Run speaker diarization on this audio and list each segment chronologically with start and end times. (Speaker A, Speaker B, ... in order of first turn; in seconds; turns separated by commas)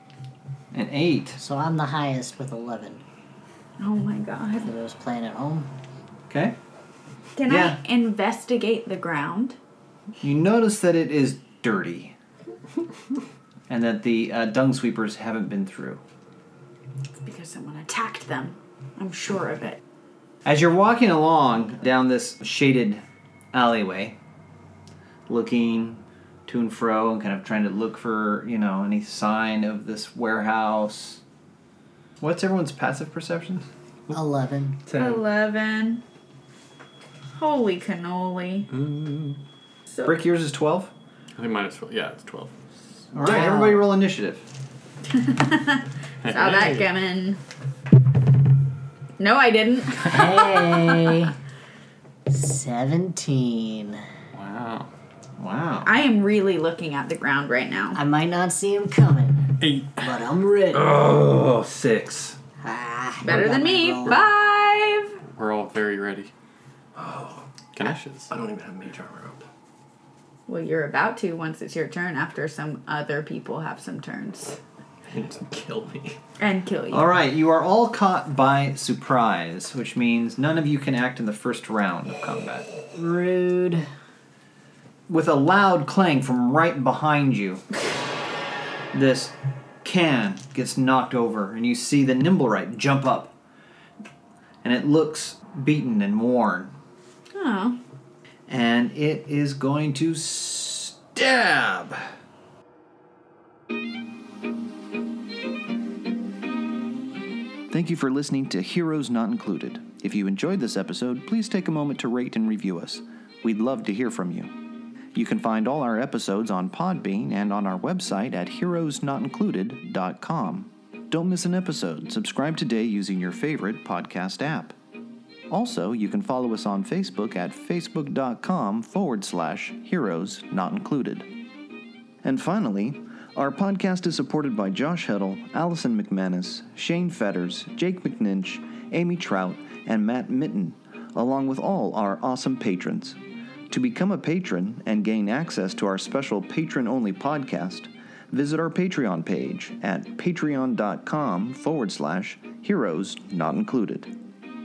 Speaker A: 0.7-1.4, Speaker B: 1.4-3.0, Speaker C: 3.8-4.7, Speaker B: 4.6-5.7, Speaker A: 6.3-6.6, Speaker C: 7.3-9.6, Speaker A: 7.5-7.8, Speaker A: 10.2-12.1, Speaker A: 13.7-16.0, Speaker C: 17.2-19.8, Speaker A: 20.4-24.2, Speaker A: 25.3-31.2, Speaker A: 32.2-33.7, Speaker B: 34.1-34.8, Speaker D: 34.9-35.2, Speaker C: 34.9-36.0, Speaker C: 37.3-38.7, Speaker E: 38.7-39.4, Speaker A: 40.0-40.9, Speaker E: 41.4-42.5, Speaker A: 43.1-44.4, Speaker B: 43.2-43.8, Speaker C: 45.1-47.4, Speaker E: 46.2-46.9, Speaker C: 49.2-51.2, Speaker B: 50.0-51.3, Speaker B: 52.3-54.0, Speaker E: 54.3-54.9, Speaker A: 55.4-55.9, Speaker C: 55.8-58.0, Speaker B: 57.9-61.0, Speaker E: 59.6-59.9, Speaker D: 60.7-62.4, Speaker B: 62.6-64.2, Speaker C: 63.2-65.2, Speaker E: 65.3-66.3, Speaker D: 67.0-69.4, Speaker E: 67.7-68.3, Speaker C: 70.5-74.6, Speaker D: 75.0-76.2, Speaker C: 76.4-77.1, Speaker A: 76.9-82.7, Speaker B: 82.9-83.8, Speaker A: 85.1-87.6, Speaker A: 88.9-93.3, Speaker A: 94.6-96.7, Speaker C: 97.3-97.8, Speaker A: 98.5-102.0, Speaker F: 107.7-114.5, Speaker F: 115.1-124.7, Speaker F: 125.5-131.3, Speaker F: 132.2-143.2, Speaker F: 143.7-154.1